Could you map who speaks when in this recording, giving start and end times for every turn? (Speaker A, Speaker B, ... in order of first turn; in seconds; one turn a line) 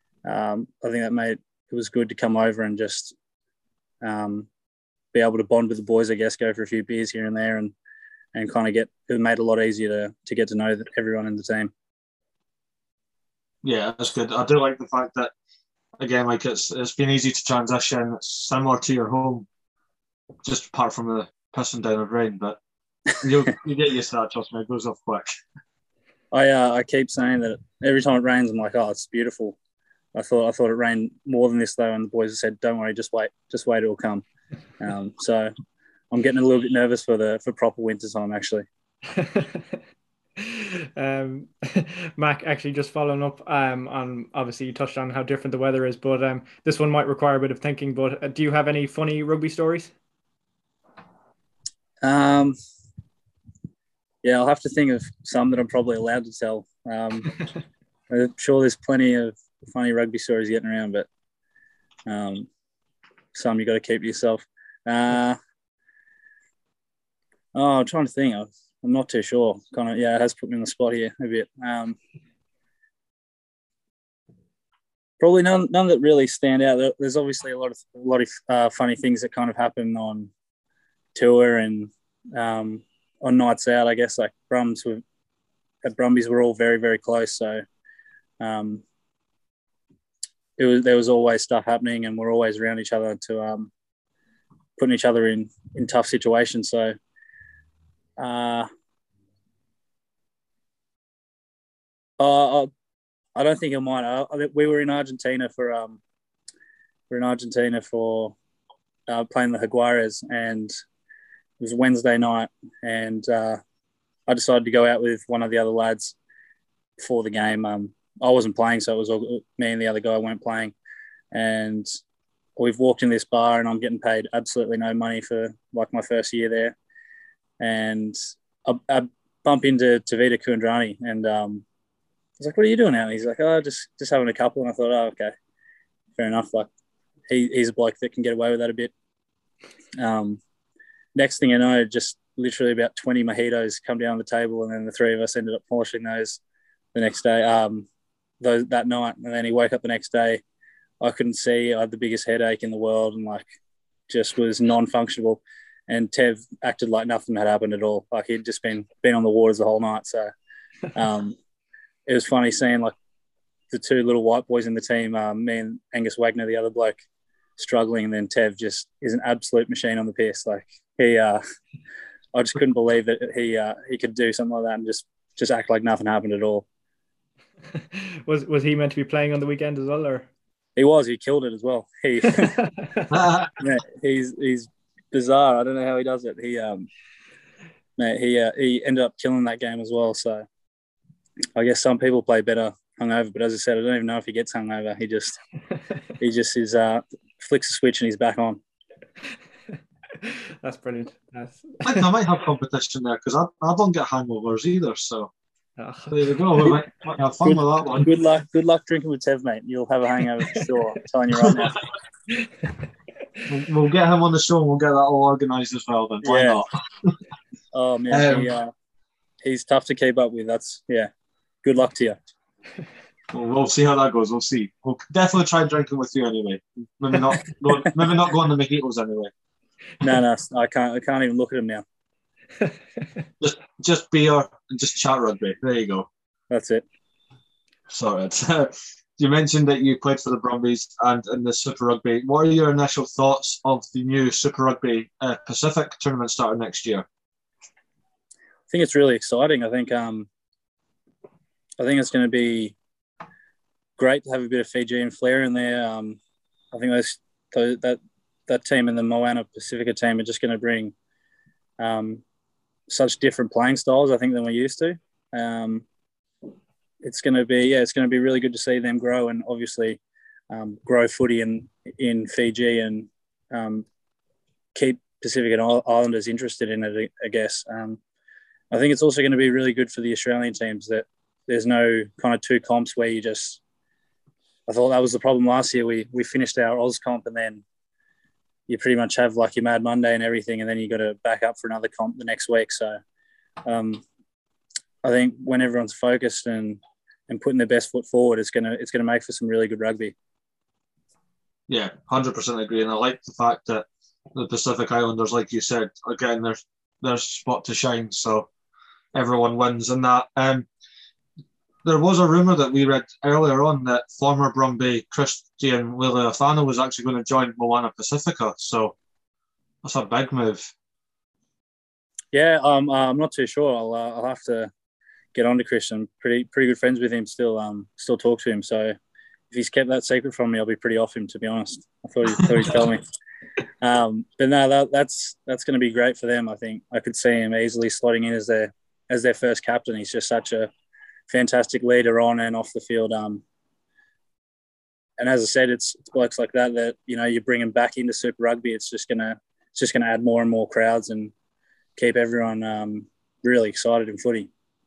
Speaker A: 0.2-3.1
Speaker A: 4.0-4.5
Speaker A: 5.1-7.7
Speaker A: 8.3-11.7
Speaker B: 13.6-15.3
Speaker B: 16.0-19.4
Speaker B: 20.4-22.6
Speaker B: 23.2-25.3
Speaker A: 26.3-29.6
Speaker A: 30.1-34.2
Speaker A: 34.8-35.5
Speaker A: 36.1-38.6
Speaker C: 39.0-39.8
Speaker C: 40.4-49.9
Speaker A: 52.0-52.6
Speaker A: 54.2-57.3
Speaker A: 58.1-61.1
Speaker A: 62.1-62.5
Speaker A: 63.3-65.4
Speaker A: 67.5-72.0
Speaker A: 75.2-80.3
Speaker A: 81.1-85.0
Speaker A: 85.8-87.6
Speaker A: 88.4-88.8
Speaker A: 90.6-93.7
Speaker A: 94.8-96.9
Speaker A: 98.2-98.7
Speaker A: 102.2-102.7
Speaker A: 103.3-106.0
Speaker A: 107.1-108.3
Speaker A: 109.1-110.7
Speaker A: 111.6-113.6
Speaker A: 114.3-116.1
Speaker A: 117.0-120.7
Speaker A: 121.3-121.9
Speaker A: 122.6-126.8
Speaker A: 127.6-131.6
Speaker A: 132.4-135.3
Speaker A: 136.2-136.7
Speaker A: 137.3-138.9
Speaker A: 140.0-140.4
Speaker A: 141.2-146.4
Speaker A: 146.9-147.9
Speaker A: 148.4-150.4
Speaker A: 151.0-153.4
Speaker A: 154.1-160.3
Speaker A: 160.9-161.4
Speaker A: 162.1-162.9
Speaker A: 163.7-167.0
Speaker A: 167.6-171.4
Speaker A: 172.3-176.7
Speaker C: 177.7-180.3
Speaker A: 180.8-182.6
Speaker C: 182.4-183.1
Speaker B: 183.1-183.5
Speaker A: 183.6-186.9
Speaker A: 188.0-190.4
Speaker A: 191.6-195.4
Speaker A: 196.2-198.6
Speaker C: 200.1-202.1
Speaker B: 201.8-205.3
Speaker C: 205.8-206.7
Speaker B: 206.1-208.1
Speaker A: 207.4-211.8
Speaker B: 213.5-217.2
Speaker A: 216.2-216.6
Speaker A: 217.7-218.7
Speaker B: 218.1-218.5
Speaker A: 219.4-221.1
Speaker A: 221.6-222.2
Speaker B: 223.3-229.3
Speaker A: 230.0-231.8
Speaker C: 232.6-233.2
Speaker B: 233.4-236.1
Speaker A: 236.5-236.8
Speaker B: 237.9-247.1
Speaker A: 248.7-250.3
Speaker A: 251.8-252.7
Speaker A: 254.0-256.2
Speaker A: 256.7-260.9
Speaker A: 261.8-262.2
Speaker A: 262.9-265.8
Speaker A: 267.0-273.8
Speaker A: 274.7-278.0
Speaker A: 278.7-283.6
Speaker A: 284.7-287.6
Speaker A: 288.7-293.0
Speaker A: 293.6-294.0
Speaker A: 295.0-300.1
Speaker B: 301.7-308.5
Speaker B: 309.1-310.7
Speaker B: 311.8-318.9
Speaker B: 319.8-320.7
Speaker A: 322.3-324.7
Speaker A: 325.3-328.9
Speaker A: 329.5-333.0
Speaker A: 333.8-340.7
Speaker A: 341.3-343.4
Speaker A: 345.2-351.3
Speaker A: 352.0-354.5